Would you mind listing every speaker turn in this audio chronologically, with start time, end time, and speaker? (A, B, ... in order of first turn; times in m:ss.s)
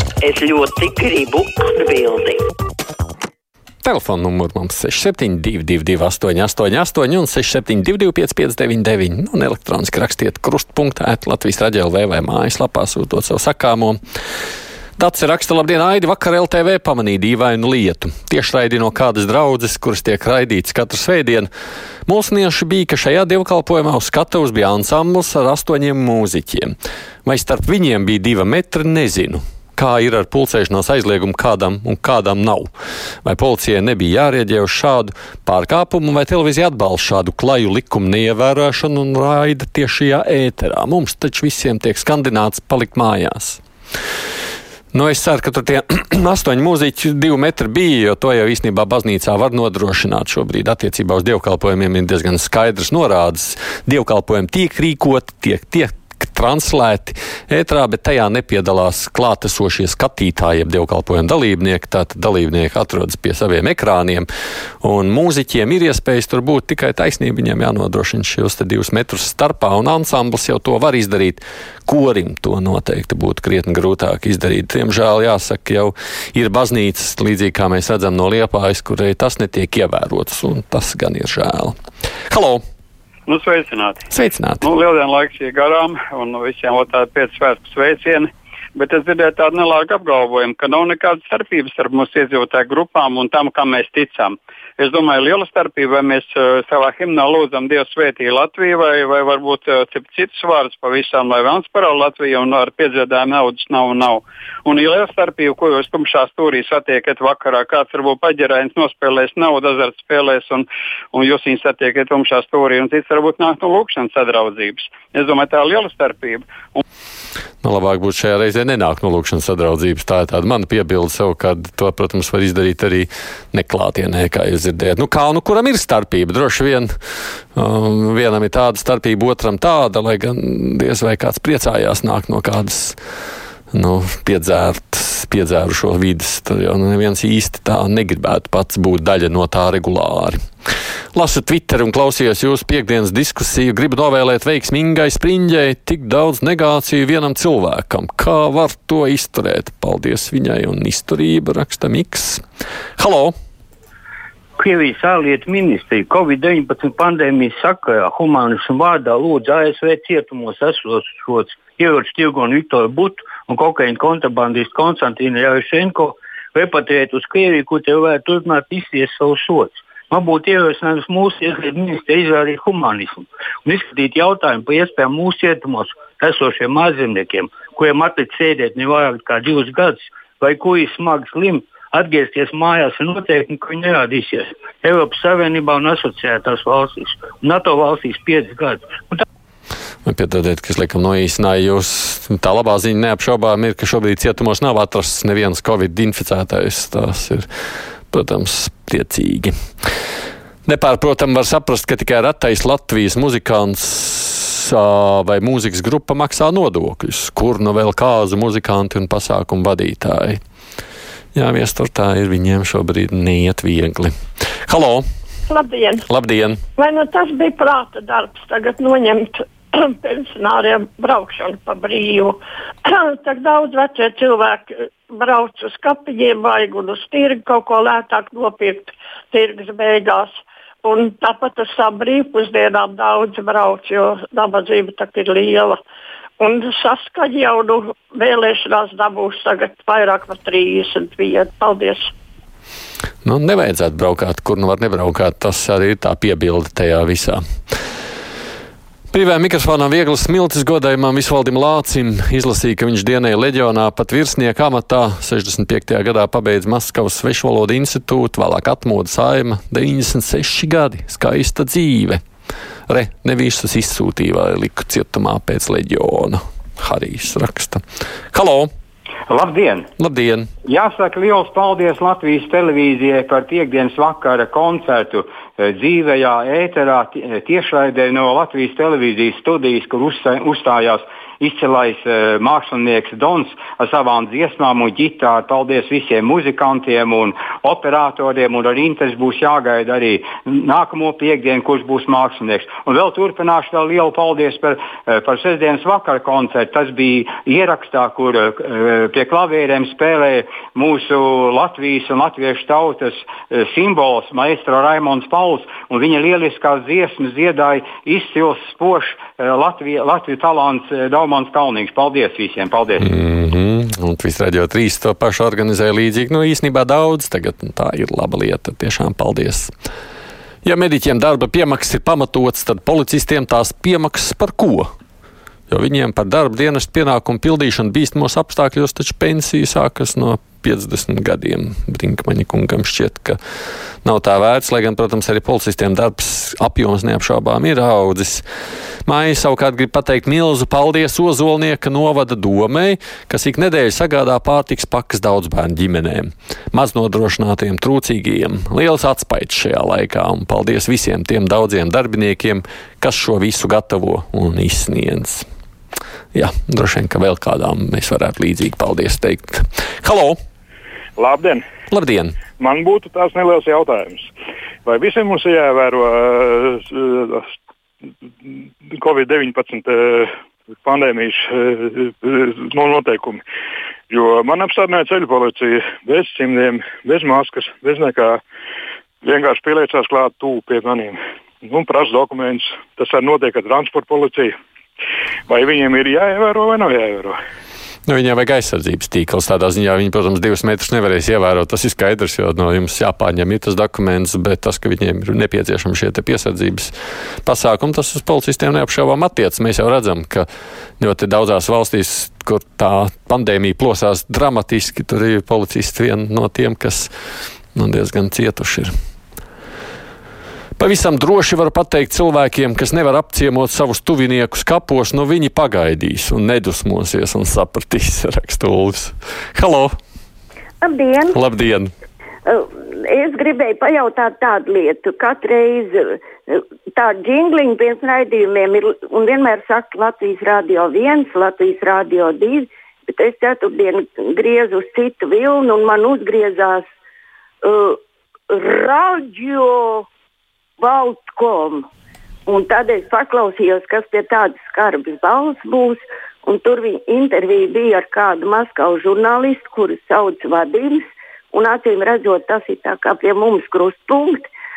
0:00.2-0:02.4 A
0:03.8-0:14.0 B
0:15.0-0:21.5 B
0:22.1-0:26.7 B
0:27.2-0:32.7 B
0:33.2-0:43.6 B
0:44.9-1:04.3 B
1:04.8-1:21.8 B
1:22.3-1:22.6 B
1:23.3-1:24.0 C
1:24.1-1:24.6 B
1:24.6-1:56.8 C
1:57.6-2:06.9 B
2:07.6-2:13.0 B
2:13.7-2:20.4 B
2:21.2-2:32.4 B
2:33.0-2:33.3 B
2:34.6-3:09.2 D
3:10.1-3:17.5 B
3:18.1-3:19.5 B
3:20.7-3:30.4 B
3:31.4-3:34.1 B
3:34.7-3:35.0 B
3:35.5-3:36.0 E
3:36.1-3:36.6 B
3:36.8-3:55.8 E
3:56.4-4:02.1 E
4:03.2-4:07.4 B
4:09.1-4:22.2 B
4:22.9-4:27.8 B
4:28.3-4:28.7 B
4:29.3-4:29.9 F
4:30.0-4:30.5 B
4:30.6-5:13.1 F
5:13.0-5:19.7 B
5:20.6-5:24.9 B
5:25.7-5:33.4 B
5:34.0-5:38.4 B
5:39.1-5:55.4 B
5:56.3-6:00.4 B
6:01.2-6:01.6 G
6:01.9-6:02.3 B
6:02.6-6:04.3 G
6:04.9-6:07.4 G
6:09.0-6:10.3 G
6:10.8-6:13.4 G
6:14.1-6:18.4 G
6:19.2-6:24.5 G
6:25.5-6:27.4 G
6:28.1-6:36.9 B
6:37.4-6:40.5 B
6:41.0-6:47.1 B
6:47.8-6:48.9 B
6:50.8-6:59.9 B
7:00.8-7:01.4 H
7:01.3-7:01.9 B
7:02.5-7:16.8 H
7:17.6-7:18.0 H
7:18.5-7:20.1 H
7:20.8-7:21.9 H
7:22.5-7:34.5 H